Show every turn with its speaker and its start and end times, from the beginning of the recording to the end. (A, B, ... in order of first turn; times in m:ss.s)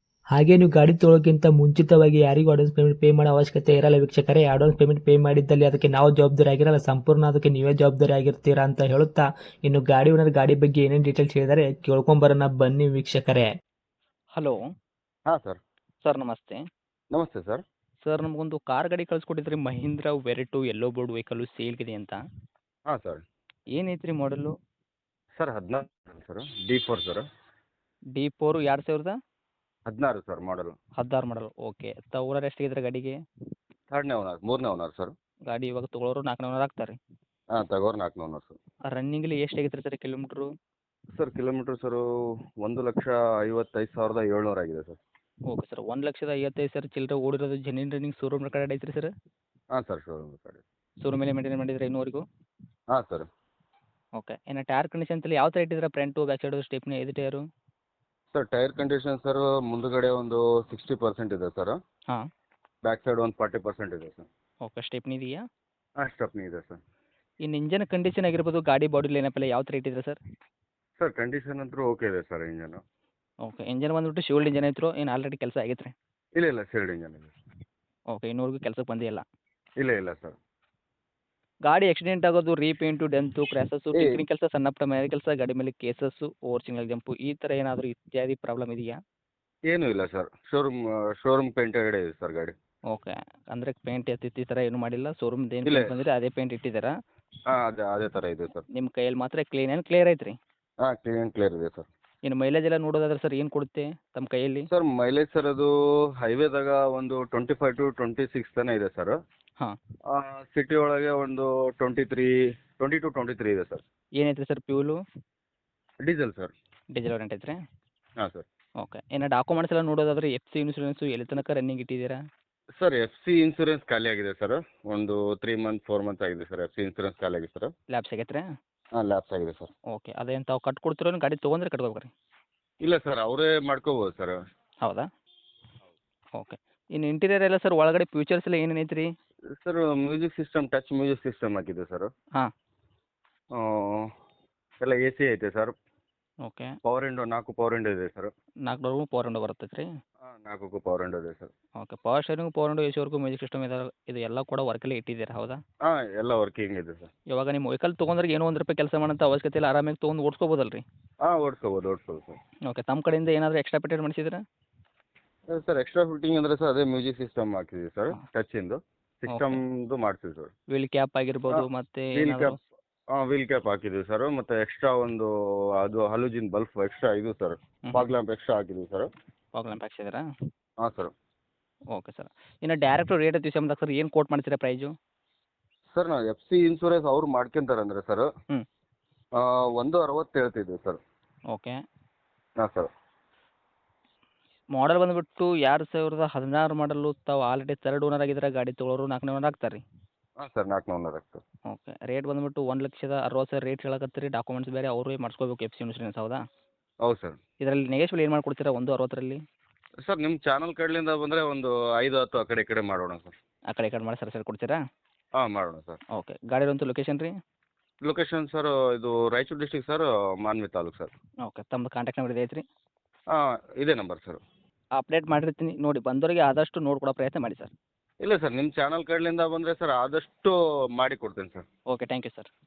0:00.3-0:13.5 A
0:15.3-0:15.6 B
0:16.0-0:16.6 C
0:17.1-0:17.6 B
0:18.0-0:22.2 C
0:22.9-0:23.2 B
0:23.7-0:24.5 C
0:25.4-0:27.2 B
0:28.1-0:29.2 C
0:29.9-0:30.8 B
0:31.0-0:33.2 C
0:33.9-0:35.1 B
0:35.5-0:37.0 C
0:37.5-0:38.6 B
0:38.9-0:40.5 C
0:41.1-0:42.0 B
0:42.6-0:45.0 B
0:45.5-0:49.1 C
0:49.7-0:50.6 B
0:51.0-0:52.2 C
0:52.9-0:53.3 B
0:54.2-0:57.4 C
0:58.3-1:01.8 B
1:02.8-1:04.3 B
1:04.6-1:05.4 C
1:06.0-1:06.8 B
1:07.4-1:10.2 C
1:11.0-1:12.8 B
1:13.4-1:15.9 C
1:16.4-1:17.3 B
1:18.1-1:19.2 C
1:19.8-1:20.4 B
1:21.7-1:28.9 C
1:23.9-1:24.2 B
1:29.7-1:32.6 B
1:32.9-1:36.9 C
1:35.6-1:35.9 B
1:37.5-1:38.6 B
1:38.7-1:40.4 C
1:40.8-1:41.9 B
1:42.2-1:44.7 C
1:44.7-1:49.2 B
1:50.1-1:53.8 B
1:54.2-1:55.0 C
1:56.0-1:56.5 B
1:56.9-1:57.6 C
1:58.2-1:58.4 B
1:58.8-2:02.2 C
2:02.8-2:07.7 B
2:07.9-2:08.4 C
2:09.0-2:09.7 B
2:09.9-2:12.1 C
2:12.8-2:14.4 B
2:16.4-2:19.1 C
2:19.5-2:22.1 B
2:23.6-2:24.1 B
2:24.8-2:25.7 B
2:26.4-2:26.7 C
2:26.8-2:28.3 B
2:28.7-2:29.9 C
2:30.2-2:31.5 B
2:31.8-2:35.6 C
2:35.8-2:37.1 B
2:37.3-2:40.8 C
2:41.2-2:42.4 B
2:42.7-2:44.4 C
2:45.5-2:50.5 B
2:49.3-2:49.6 C
2:50.7-2:52.6 C
2:52.1-2:52.6 B
2:53.1-2:59.1 B
2:59.5-3:00.2 C
3:00.8-3:01.1 B
3:01.9-3:04.9 C
3:05.9-3:08.3 B
3:09.4-3:11.0 B
3:11.5-3:11.8 C
3:12.6-3:12.9 B
3:14.7-3:19.8 C
3:20.4-3:21.4 B
3:21.7-3:26.4 C
3:27.0-3:27.4 B
3:27.6-3:29.4 C
3:30.0-3:33.3 B
3:33.7-3:34.8 C
3:35.4-3:36.0 B
3:36.1-3:37.3 C
3:38.0-3:41.1 B
3:41.4-3:42.6 C
3:43.3-3:44.4 B
3:45.0-3:47.7 C
3:48.2-3:51.6 B
3:51.9-3:52.5 C